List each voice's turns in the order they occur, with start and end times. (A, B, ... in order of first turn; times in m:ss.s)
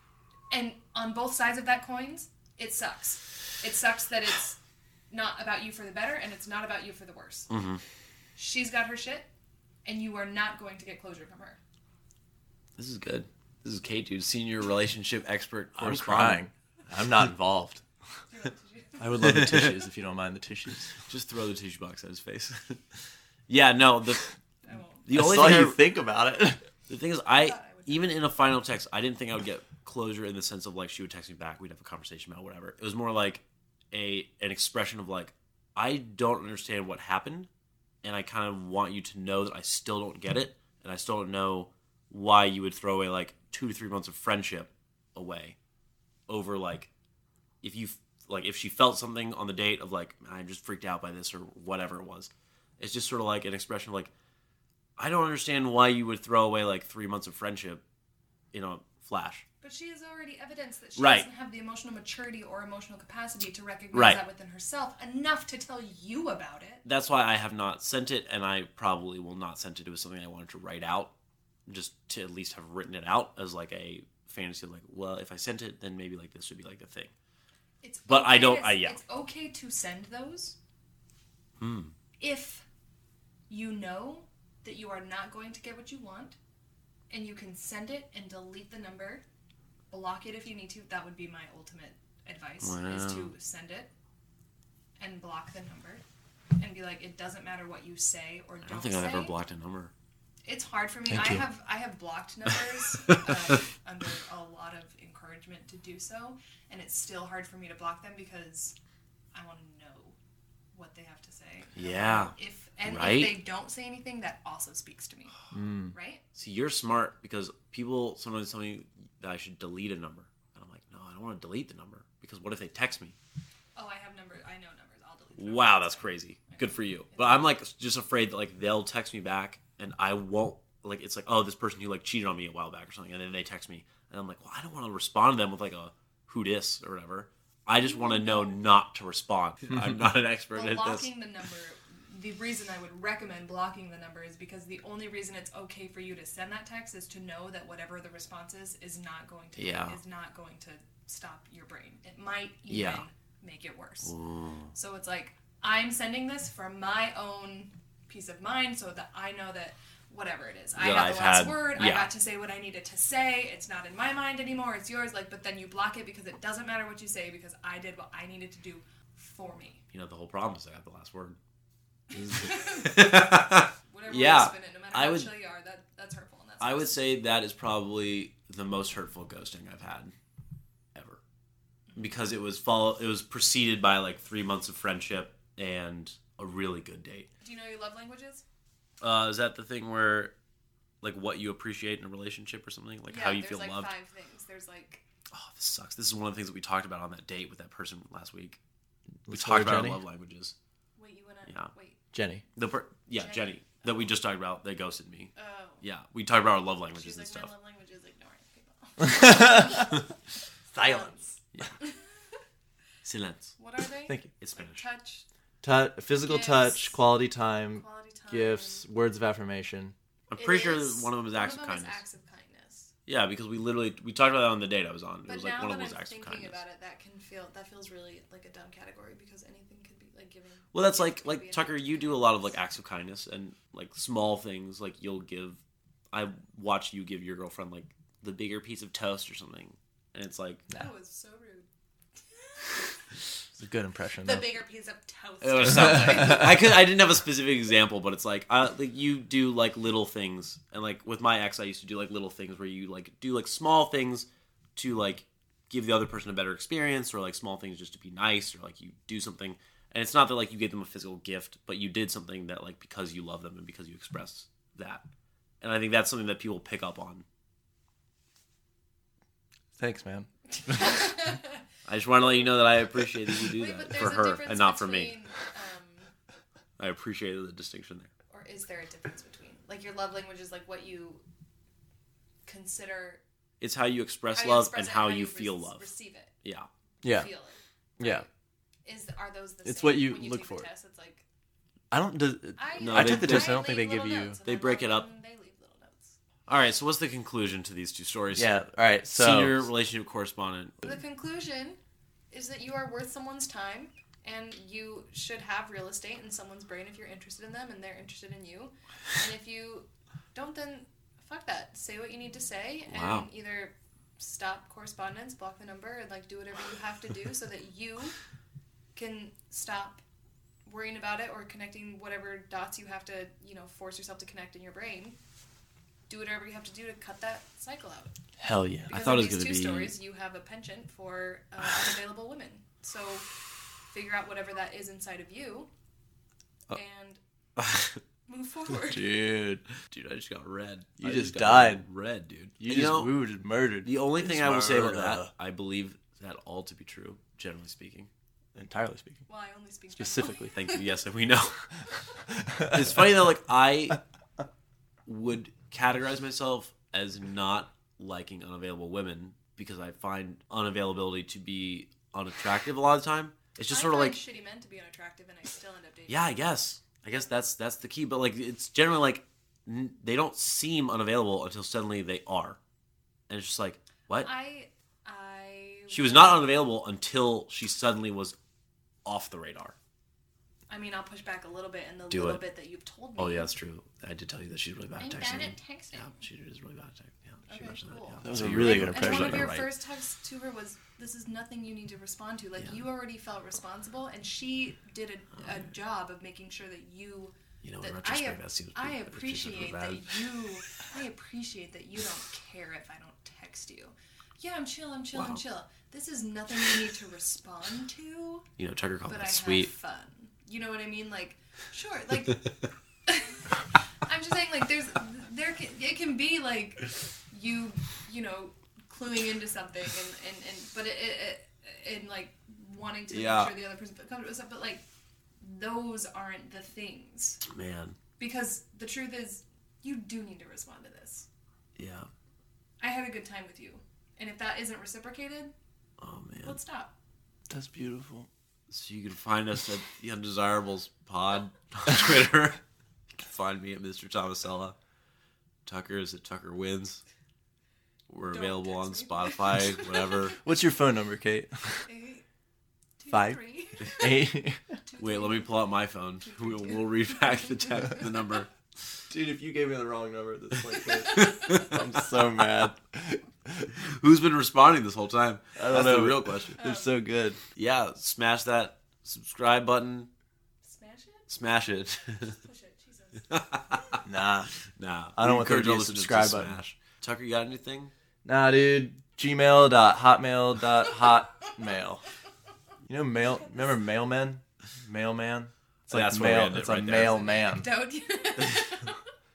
0:00.5-0:04.6 A
0:05.1-0:07.5 A
0:07.5-0:07.8 B
0:08.4-0:09.3 A
0:09.8-0:11.6 A
0:12.8-0:16.4 B
0:15.8-0:17.8 C
0:18.3-0:19.1 A
0:19.0-0:21.0 C
0:19.1-0:19.8 B
0:21.0-0:24.3 B
0:24.6-0:25.0 A
0:25.0-0:25.8 B
0:25.1-0:26.6 C
0:26.9-0:37.5 B
0:27.3-0:28.1 A
0:38.0-0:45.6 B
0:46.3-0:46.9 B
0:47.6-0:54.1 B
0:55.0-0:57.8 B
0:58.5-0:59.4 B
0:59.6-1:06.8 A
1:01.0-1:01.3 B
1:03.9-1:04.2 B
1:06.8-1:11.1 B
1:11.7-1:17.1 B
1:17.8-1:20.6 A
1:18.1-1:19.0 B
1:21.6-1:21.9 B
1:22.2-1:22.6 A
1:23.5-1:26.4 A
1:27.1-1:29.2 A
1:29.9-1:33.9 A
1:32.6-1:33.3 B
1:35.0-1:36.0 A
1:36.6-1:39.3 A
1:38.6-1:39.9 B
1:40.5-1:48.8 A
1:41.1-1:41.4 C
1:49.3-1:50.2 A
1:50.7-1:56.2 A
1:51.8-1:52.3 B
1:52.8-1:53.4 B
1:55.5-1:55.9 C
1:56.4-2:03.1 B
2:03.8-2:07.4 A
2:05.4-2:21.0 B
2:17.8-2:18.6 A
2:20.5-2:34.1 A
2:29.6-2:30.0 B
2:32.7-2:33.0 B
2:34.0-2:34.7 B
2:34.7-2:49.8 A
2:40.8-2:42.1 B
2:49.9-2:51.4 B
2:52.1-2:57.0 A
2:52.3-2:55.3 B
2:56.6-3:00.1 B
3:01.0-3:01.2 B
3:01.9-3:02.2 A
3:02.0-3:07.3 B
3:07.4-3:08.4 A
3:09.0-3:10.3 B
3:11.0-3:13.9 B
3:13.1-3:15.0 A
3:15.3-3:18.6 B
3:19.3-3:20.0 C
3:19.3-3:20.5 B
3:21.0-3:22.0 A
3:22.1-3:22.4 C
3:22.6-3:27.5 B
3:23.1-3:24.1 A
3:25.4-3:25.8 A
3:27.0-3:30.1 A
3:29.0-3:29.8 C
3:30.7-3:32.0 A
3:30.7-3:31.1 C
3:33.0-3:33.6 B
3:33.6-3:35.3 A
3:34.4-3:34.9 B
3:35.6-3:40.0 C
3:36.2-3:37.0 A
3:37.7-3:38.9 A
3:40.3-3:42.0 B
3:40.4-3:42.9 A
3:43.1-3:46.6 B
3:45.3-3:52.6 A
3:50.7-3:55.6 B
3:56.1-4:00.6 B
4:00.7-4:01.7 A
4:02.3-4:02.9 A
4:03.6-4:04.5 C
4:04.2-4:06.6 A
4:05.4-4:25.0 B
4:25.6-4:27.2 B
4:29.8-4:31.0 C
4:30.5-4:31.6 A
4:31.9-4:35.2 B
4:33.5-4:36.1 A
4:36.8-4:38.1 B
4:38.3-4:41.2 A
4:42.4-4:43.2 A
4:43.6-4:45.9 B
4:44.3-4:46.3 A
4:46.4-4:46.7 B
4:47.0-4:48.3 A
4:47.0-4:47.3 C
4:48.0-4:48.3 C
4:48.8-4:51.2 A
4:49.6-4:50.7 C
4:51.9-4:54.4 C
4:52.6-4:56.2 A
4:52.8-4:53.6 B
4:54.4-4:55.1 B
4:56.5-4:58.6 B
4:58.3-4:59.7 C
4:59.1-5:00.8 B
5:00.8-5:01.8 A
5:02.3-5:18.2 A
5:12.9-5:13.3 B
5:19.0-5:20.0 A
5:20.6-5:25.2 A
5:26.1-5:28.2 A
5:28.4-5:28.9 C
5:28.9-5:29.9 B
5:28.9-5:33.3 A
5:33.9-5:35.7 A
5:36.7-5:37.2 A
5:37.6-5:38.0 B
5:38.3-5:39.2 A
5:38.9-5:39.6 C
5:39.8-5:43.2 B
5:41.0-5:41.8 C
5:42.6-5:45.3 C
5:43.8-5:48.1 B
5:48.6-5:49.2 C
5:49.3-5:50.8 A
5:50.0-5:50.6 C
5:50.4-5:51.6 B
5:52.4-5:52.8 C
5:52.6-5:54.0 B
5:55.0-6:04.2 B
6:03.7-6:06.4 A
6:06.1-6:12.6 B
6:13.3-6:14.3 B
6:14.2-6:16.5 A
6:15.9-6:18.3 B
6:19.0-6:19.8 B
6:20.7-6:23.5 A
6:22.1-6:22.4 B
6:23.2-6:29.5 B
6:25.0-6:26.2 A
6:27.5-6:48.4 A
6:28.2-6:29.7 C
6:37.6-6:40.2 B
6:45.1-6:45.4 B
6:48.6-6:49.7 B
6:49.1-6:52.5 A
6:53.1-7:04.8 A
7:03.1-7:03.5 B
7:05.4-7:07.4 A
7:07.4-7:08.0 B
7:08.2-7:11.3 A
7:11.8-7:12.1 B
7:12.8-7:15.5 A
7:16.0-7:16.6 B
7:16.4-7:16.9 A
7:17.5-7:18.3 C
7:18.7-7:22.6 B
7:23.1-7:24.8 B
7:25.6-7:27.0 B
7:28.1-7:30.4 B
7:28.3-7:30.3 A
7:30.4-7:31.8 C
7:31.9-7:32.2 A
7:33.0-7:34.3 A
7:33.1-7:34.7 C
7:34.8-7:35.6 A
7:35.0-7:38.5 B
7:36.2-7:38.0 A
7:39.1-7:43.7 C
7:41.0-7:41.7 A
7:41.2-7:41.7 B
7:43.8-7:46.6 B
7:45.6-7:47.4 C
7:46.6-7:46.9 A
7:47.6-7:50.1 B
7:50.6-7:51.3 A
7:51.3-7:52.4 B
7:52.2-7:54.0 A
7:53.3-7:54.0 B
7:54.0-7:54.5 C
7:54.6-7:57.9 B
7:55.2-7:56.6 C
7:58.2-8:02.0 C
8:00.9-8:01.2 A
8:02.9-8:07.7 C
8:05.9-8:07.3 B
8:07.0-8:09.0 A